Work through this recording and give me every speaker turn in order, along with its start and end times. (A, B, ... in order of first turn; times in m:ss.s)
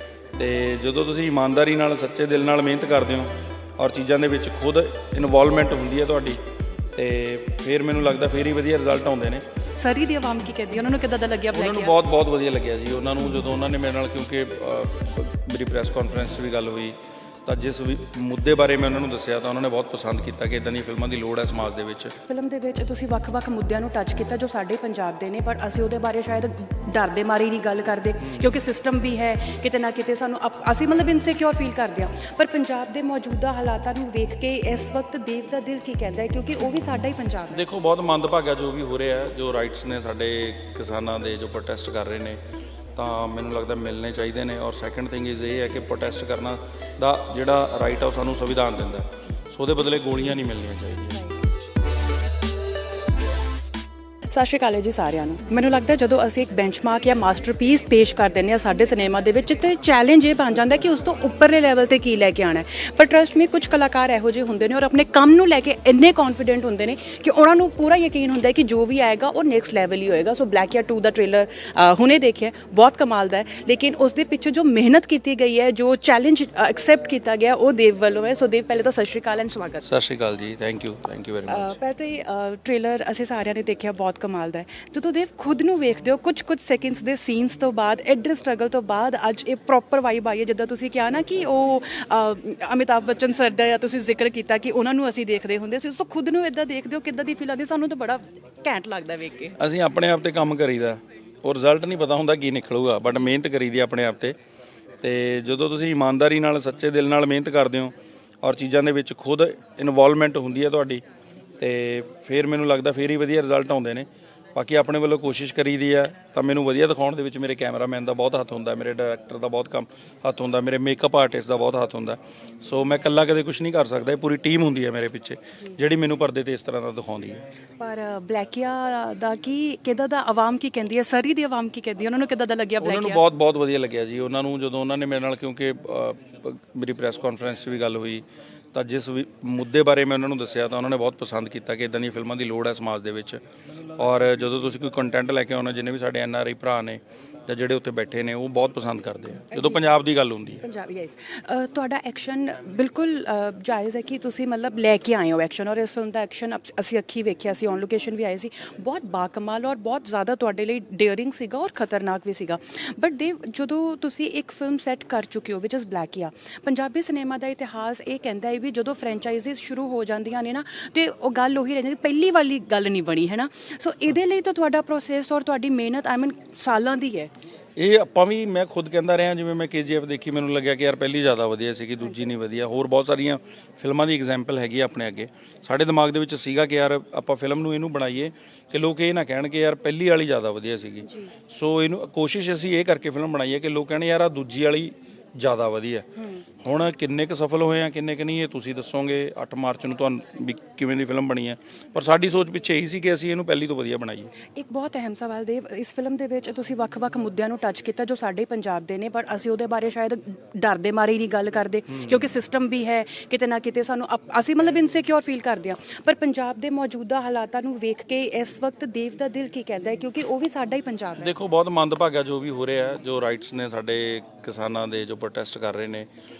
0:00.4-0:06.4 A
0:07.0-0:09.5 A
0:09.8-0:12.0 B
0:11.5-0:22.2 A
0:22.3-0:37.6 B
0:28.2-0:28.6 A
0:37.5-0:42.4 A
0:43.0-0:51.2 A
0:54.3-1:19.8 B
1:19.8-1:21.8 A
1:21.5-1:39.6 B
1:39.6-1:44.4 A
1:45.0-1:51.0 A
1:51.6-2:07.4 A
2:07.8-2:13.2 B
2:12.8-2:23.4 A
2:23.9-2:30.6 A
2:29.5-2:29.8 B
2:30.6-2:57.3 B
2:57.8-3:16.1 A
3:16.6-3:24.3 A
3:24.5-3:41.3 B
3:41.2-3:46.1 A